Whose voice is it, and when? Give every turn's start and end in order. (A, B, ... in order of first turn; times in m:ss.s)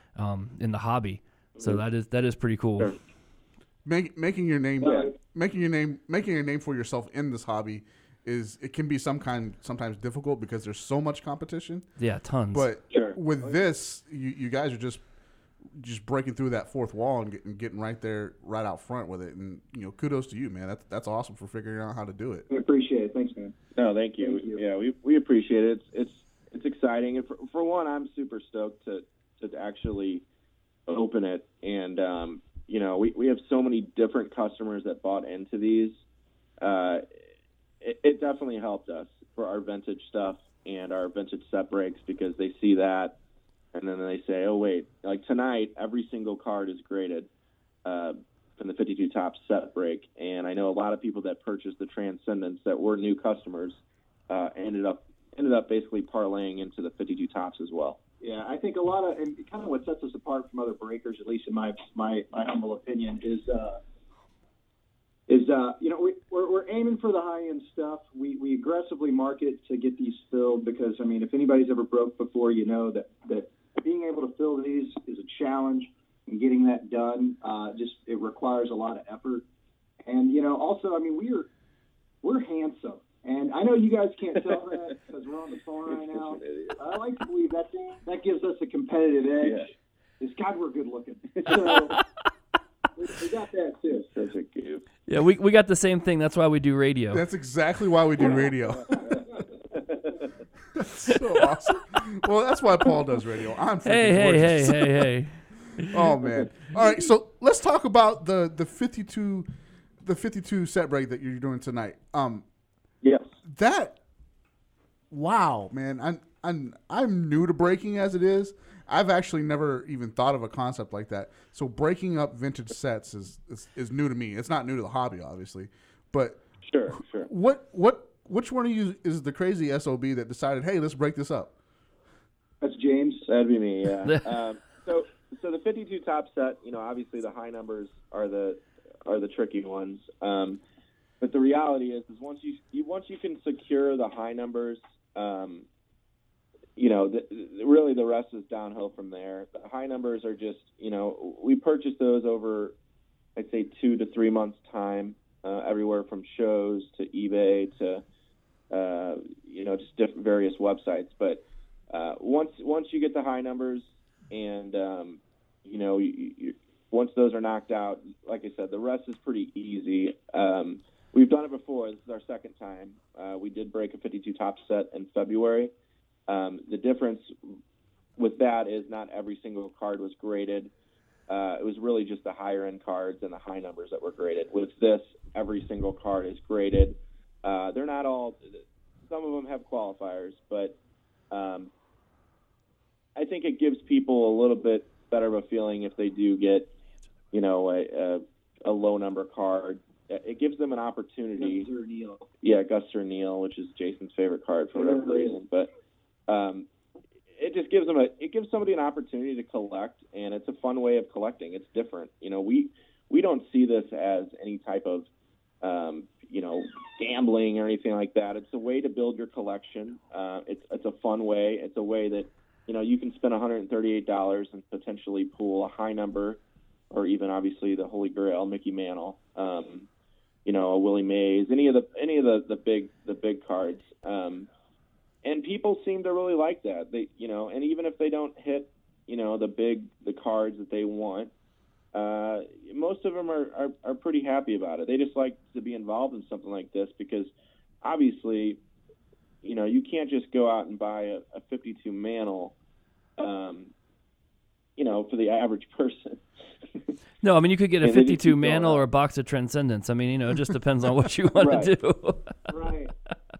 0:00.2-0:03.0 A
0:03.8-0:11.9 B
0:04.8-0:05.1 C
0:12.0-0:12.7 A
0:12.5-0:15.0 B
0:12.9-0:13.2 D
0:15.8-0:22.5 B
0:22.5-0:23.5 C
0:23.8-0:30.2 D
0:24.2-0:24.6 C
0:30.9-0:36.0 D
0:36.6-0:37.0 D
0:37.8-0:43.2 D
0:43.7-0:47.3 D
0:47.8-0:58.0 D
0:58.2-1:03.8 C
1:05.3-1:19.4 C
1:20.0-1:21.5 C
1:22.2-1:32.0 C
1:25.9-1:26.8 D
1:29.4-1:29.7 D
1:33.0-1:34.1 C
1:34.1-1:34.8 D
1:35.1-1:37.2 A
1:37.1-1:39.0 B
1:38.9-1:39.4 C
1:40.7-1:45.1 B
1:41.1-1:41.4 A
1:43.8-1:46.2 A
1:45.9-1:49.5 B
1:50.0-1:52.4 B
1:53.0-1:53.3 D
1:53.4-1:54.0 B
1:55.1-2:06.4 B
2:06.6-2:07.3 D
2:07.1-2:11.5 B
2:12.6-2:13.3 C
2:13.3-2:20.6 D
2:21.2-2:25.6 D
2:26.8-2:32.7 D
2:33.4-2:38.0 D
2:38.7-2:55.7 D
2:56.3-2:57.3 D
2:58.2-3:00.7 D
3:01.3-3:10.8 D
3:11.3-3:11.7 D
3:13.2-3:16.7 D
3:17.3-3:21.7 D
3:21.4-3:22.3 C
3:22.4-3:25.7 D
3:24.7-3:25.4 C
3:26.3-3:26.7 D
3:27.3-3:35.1 D
3:35.6-3:46.4 D
3:46.9-3:49.9 D
3:50.4-3:54.5 D
3:55.2-4:01.3 D
4:01.9-4:07.3 D
4:07.8-4:08.6 D
4:09.4-4:12.6 D
4:13.2-4:13.7 D
4:14.8-4:16.2 D
4:17.2-4:22.4 A
4:17.8-4:18.8 D
4:21.4-4:21.7 D
4:22.5-4:22.9 C